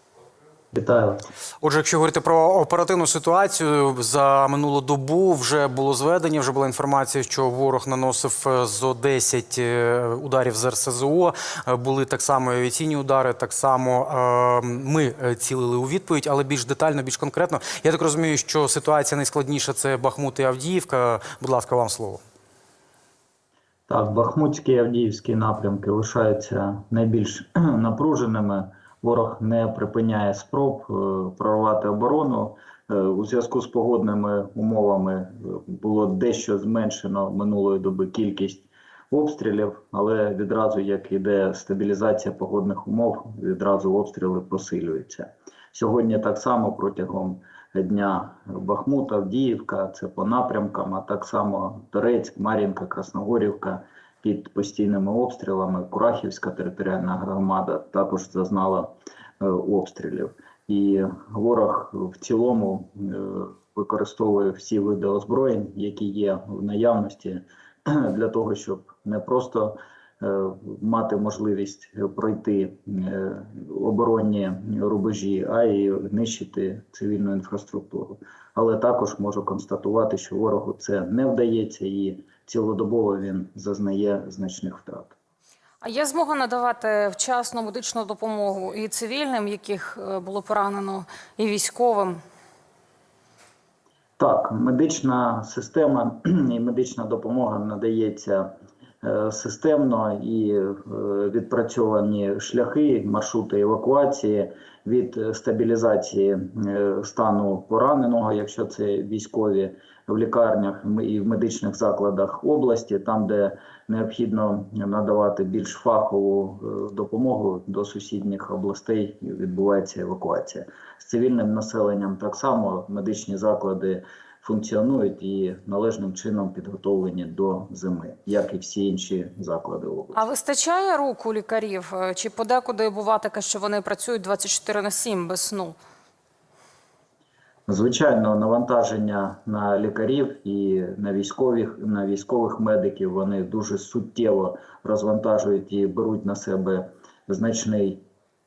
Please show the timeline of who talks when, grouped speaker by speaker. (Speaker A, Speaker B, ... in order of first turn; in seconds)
Speaker A: 0.7-1.2, 23.9-85.1, 94.2-98.5, 99.0-130.3, 137.7-148.0
Speaker B: 1.6-22.2
Speaker C: 85.8-92.2, 130.1-135.8